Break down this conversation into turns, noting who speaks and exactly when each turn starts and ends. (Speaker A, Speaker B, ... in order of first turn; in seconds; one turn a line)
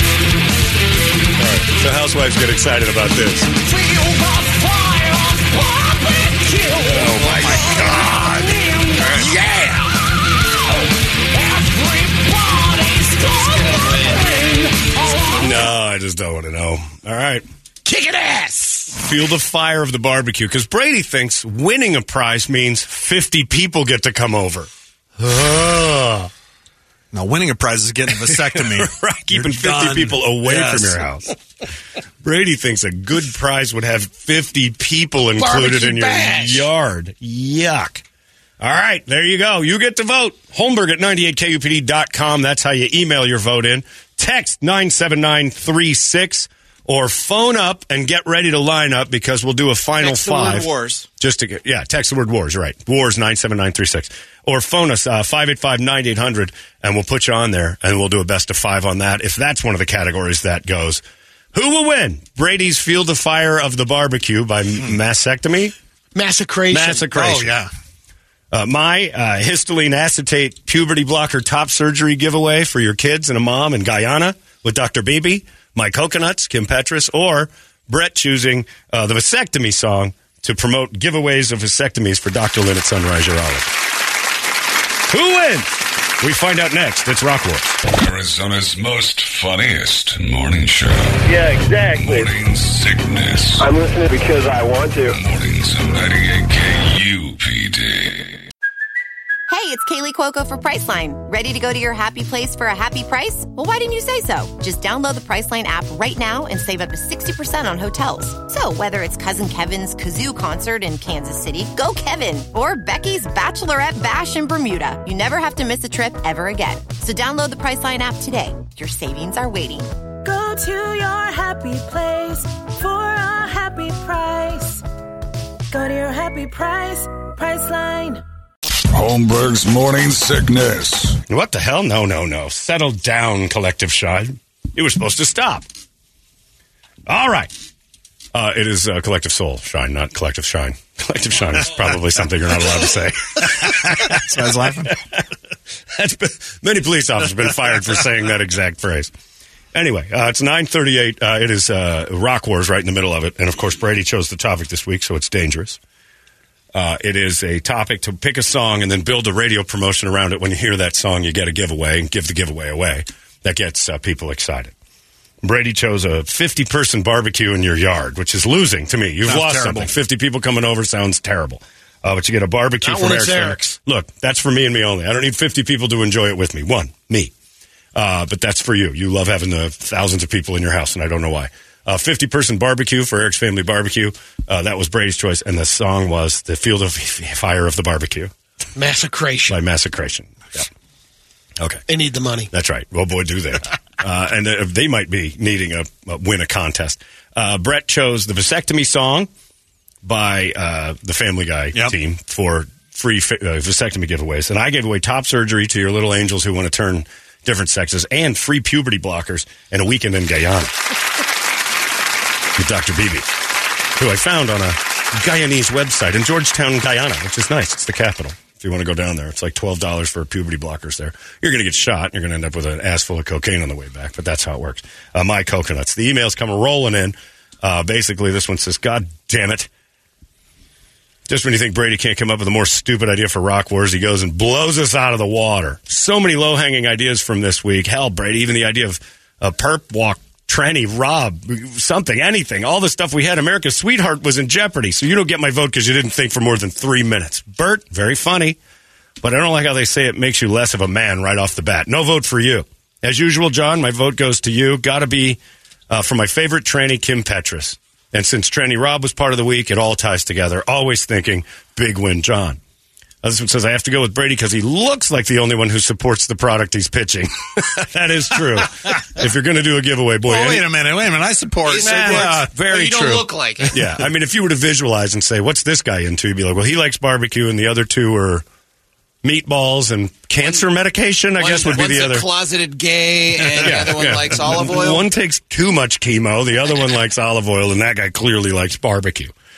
Speaker A: 1.4-3.6
Speaker A: 6.8-7.8
Speaker B: 6.9-8.6
Speaker C: 7.6-8.3
Speaker C: 9.1-10.0
Speaker C: 13.2-14.1
Speaker D: 13.3-14.3
Speaker A: 15.3-17.4
Speaker C: 17.8-19.0
Speaker A: 18.9-26.3
Speaker B: 27.1-31.0
Speaker A: 28.3-31.3
Speaker A: 32.2-38.0
Speaker C: 35.4-36.7
Speaker A: 38.6-61.0
Speaker D: 50.0-51.1
Speaker A: 61.5-65.8
Speaker C: 66.1-67.1
Speaker A: 66.7-67.5
Speaker B: 67.1-67.7
Speaker A: 68.5-83.7
Speaker A: 85.1-87.8
Speaker E: 87.9-91.3
Speaker F: 91.2-92.3
Speaker E: 91.9-93.7
Speaker F: 93.6-95.2
Speaker E: 95.1-98.4
Speaker G: 99.5-119.9
Speaker H: 120.2-124.8
Speaker H: 125.7-128.2
Speaker E: 128.9-131.2
Speaker A: 131.3-135.7
Speaker A: 137.1-137.5
Speaker A: 138.3-145.2
Speaker B: 143.9-145.0
Speaker A: 145.9-149.1
Speaker A: 149.7-155.8
Speaker A: 156.7-164.7
Speaker A: 165.4-177.3
Speaker B: 169.2-169.9
Speaker C: 172.8-173.8
Speaker A: 177.9-188.3
Speaker C: 188.8-189.6
Speaker A: 189.5-190.7
Speaker A: 191.6-191.8
Speaker C: 191.9-192.5
Speaker A: 192.5-199.3
Speaker A: 200.0-210.8
Speaker A: 212.6-213.3
Speaker A: 213.9-229.7
Speaker A: 231.3-248.6
Speaker A: 249.2-262.6
Speaker A: 263.2-270.7
Speaker B: 270.2-272.5
Speaker D: 271.6-273.8
Speaker A: 271.8-278.4
Speaker A: 279.2-282.3
Speaker D: 281.3-285.1
Speaker A: 283.5-289.3